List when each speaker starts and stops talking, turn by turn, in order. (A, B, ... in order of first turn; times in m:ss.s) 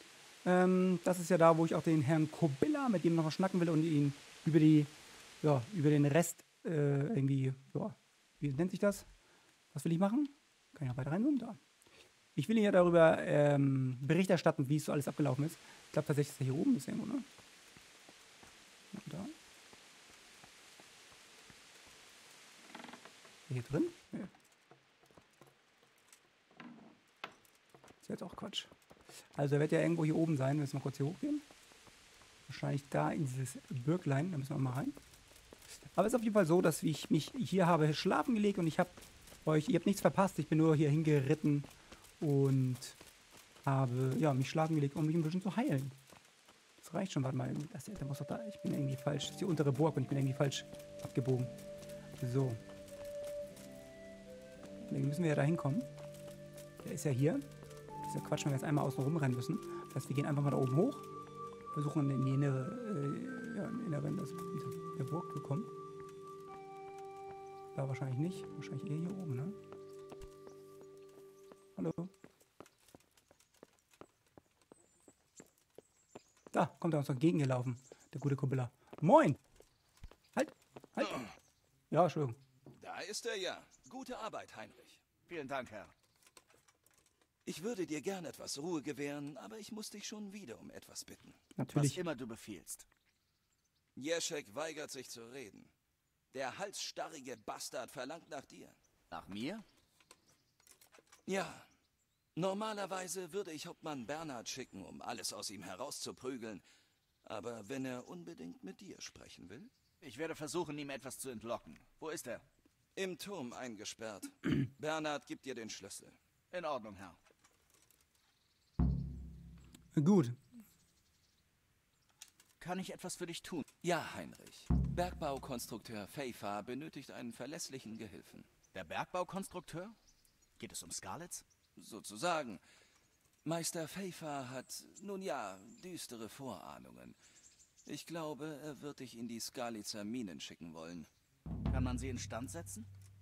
0:00.4-0:09.1 A
0:09.7-0:11.6 A
0:12.3-0:17.3 A
0:18.9-0:19.3 A
0:23.5-0:24.3 A
0:28.0-0:28.7 A
0:29.3-0:31.4 A
0:32.4-0:35.0 A
0:35.9-0:43.0 A
0:43.6-0:46.0 A
0:46.8-0:51.5 A
0:52.2-0:52.6 A
0:54.9-0:55.9 A
0:56.8-0:57.5 A
0:58.0-1:01.0 A
1:01.7-1:05.7 A
1:07.7-1:09.6 A
1:11.8-1:12.1 A
1:16.5-1:19.4 A
1:20.3-1:21.2 A
1:21.9-1:22.4 A
1:22.7-1:25.0 B
1:25.3-1:25.9 C
1:27.4-1:31.4 B
1:31.6-1:32.0 A
1:31.7-1:32.8 C
1:34.0-1:35.7 B
1:36.3-1:38.8 B
1:39.1-1:39.6 C
1:41.2-1:41.7 B
1:42.3-1:46.6 B
1:47.2-1:49.7 B
1:50.0-1:52.4 C
1:52.9-1:56.2 B
1:56.5-1:57.2 C
1:59.9-2:00.4 A
2:02.6-2:03.6 C
2:03.8-2:08.5 B
2:08.7-2:10.0 C
2:10.6-2:11.4 C
2:11.8-2:12.6 B
2:13.4-2:17.2 B
2:17.8-2:21.1 B
2:21.7-2:22.9 C